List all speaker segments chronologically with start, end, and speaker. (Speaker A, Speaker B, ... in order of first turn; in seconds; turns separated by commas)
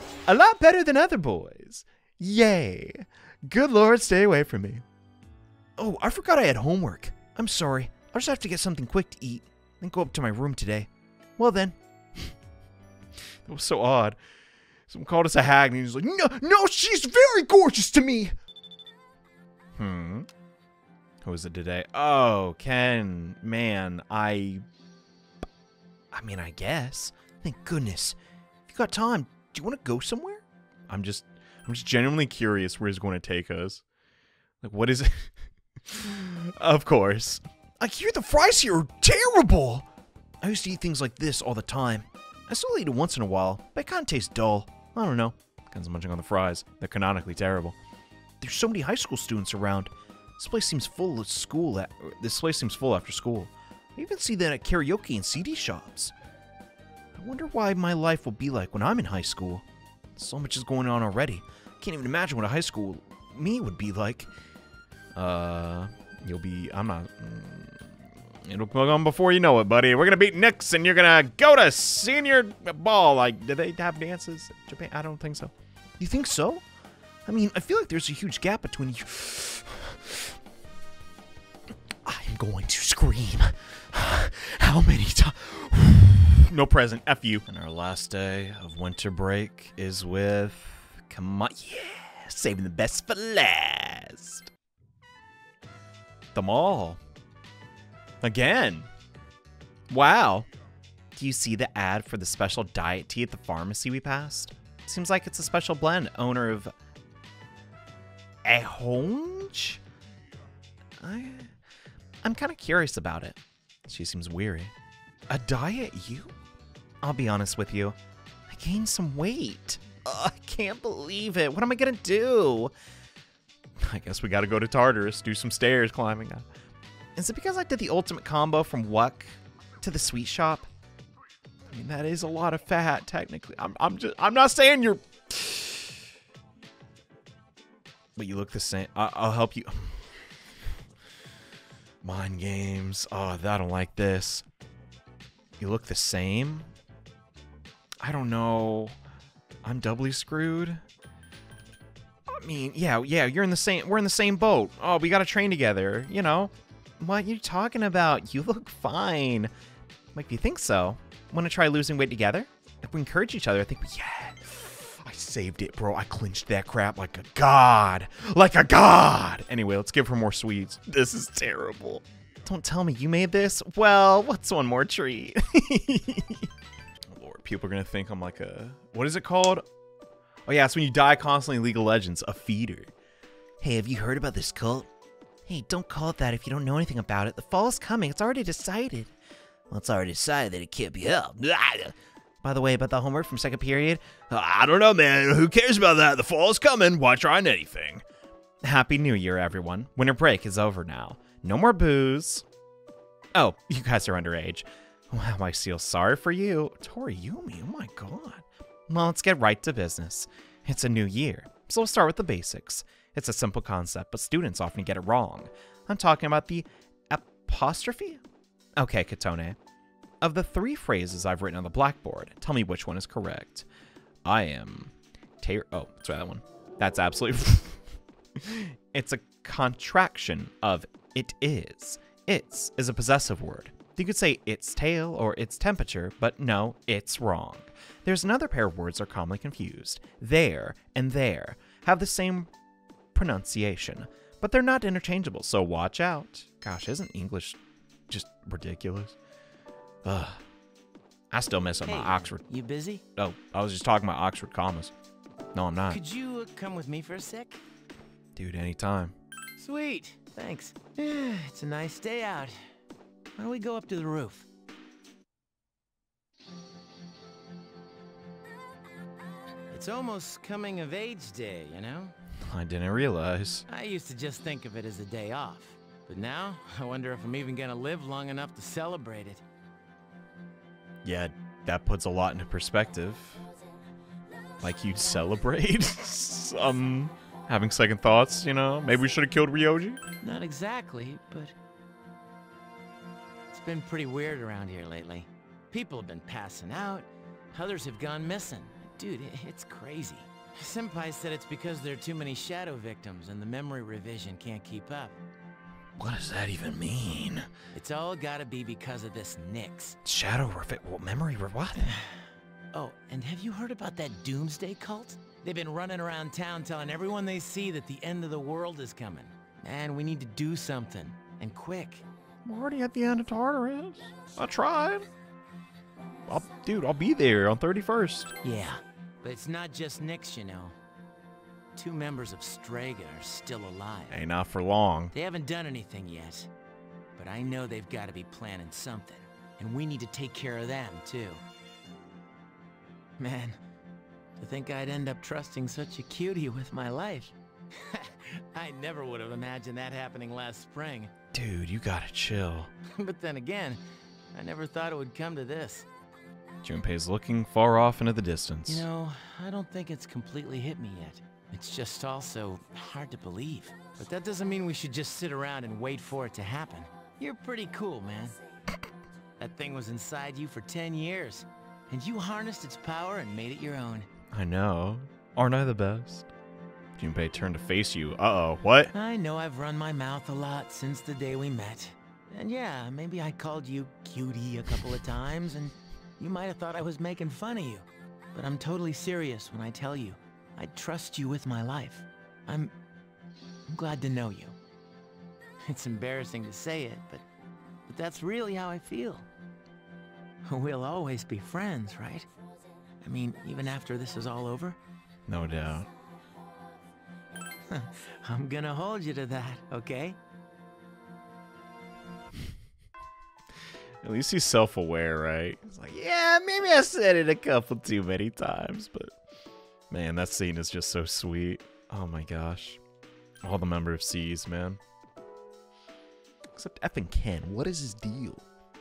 Speaker A: 0.3-4.8, Speaker A: 5.8-12.3, Speaker A: 13.4-14.2, Speaker A: 14.9-18.4, Speaker A: 19.8-20.3, Speaker A: 21.2-24.6, Speaker A: 26.1-28.2, Speaker A: 28.7-33.8, Speaker A: 34.6-35.3, Speaker A: 35.9-39.9, Speaker A: 40.4-47.8, Speaker A: 48.4-56.1, Speaker A: 57.2-59.6, Speaker A: 60.2-64.3, Speaker A: 65.2-76.6, Speaker A: 77.3-80.3, Speaker A: 82.0-94.5, Speaker A: 96.3-97.0, Speaker A: 98.2-98.9, Speaker A: 99.9-100.5, Speaker A: 101.2-106.7, Speaker A: 108.5-109.8, Speaker A: 111.0-111.5, Speaker A: 112.2-114.7, Speaker A: 115.3-116.3, Speaker A: 117.0-118.0, Speaker A: 118.5-122.7, Speaker A: 123.8-126.5, Speaker A: 127.2-130.7, Speaker A: 131.7-136.0, Speaker A: 138.2-140.2, Speaker A: 142.0-144.4, Speaker A: 145.6-146.7, Speaker A: 148.0-149.0, Speaker A: 149.6-150.8, Speaker A: 152.3-159.5, Speaker A: 160.2-176.5, Speaker A: 177.1-179.7, Speaker A: 180.5-182.9, Speaker A: 183.6-184.9, Speaker A: 185.5-189.1, Speaker A: 189.7-198.0, Speaker A: 198.6-202.4, Speaker A: 203.3-218.2, Speaker A: 218.8-219.6, Speaker A: 220.2-223.7, Speaker A: 224.2-227.8, Speaker A: 228.4-242.5, Speaker A: 243.1-247.6, Speaker A: 248.1-249.2, Speaker A: 250.1-250.4, Speaker A: 251.3-252.4, Speaker B: 251.8-253.0, Speaker A: 253.2-254.9, Speaker A: 255.5-256.0, Speaker B: 255.9-257.6, Speaker A: 258.4-259.1, Speaker B: 259.6-262.6, Speaker B: 263.4-264.5, Speaker B: 269.7-272.1, Speaker A: 272.4-273.6, Speaker B: 273.7-279.4, Speaker A: 281.1-283.4, Speaker A: 284.6-290.0, Speaker B: 290.2-291.5, Speaker B: 293.5-305.2, Speaker A: 306.0-307.5, Speaker B: 307.7-310.0, Speaker A: 310.0-312.0, Speaker B: 312.7-322.1, Speaker A: 322.4-325.1, Speaker A: 326.3-328.3, Speaker B: 328.4-330.8, Speaker B: 331.8-334.2, Speaker A: 334.1-335.1, Speaker B: 335.1-336.5, Speaker B: 337.2-341.4, Speaker B: 343.2-343.6, Speaker B: 344.4-351.1, Speaker A: 351.3-352.7, Speaker B: 353.0-353.8, Speaker B: 354.3-355.9, Speaker A: 356.6-358.8, Speaker B: 358.7-368.4, Speaker B: 369.4-374.1, Speaker A: 374.3-376.3, Speaker A: 377.0-378.9, Speaker B: 378.9-392.7, Speaker B: 393.7-394.6, Speaker B: 395.7-397.2, Speaker B: 397.9-399.3, Speaker B: 400.5-402.3, Speaker B: 403.0-404.8, Speaker A: 405.3-405.9, Speaker B: 407.7-410.2, Speaker A: 414.0-419.1, Speaker A: 419.9-422.8, Speaker A: 423.4-424.8, Speaker A: 426.6-428.4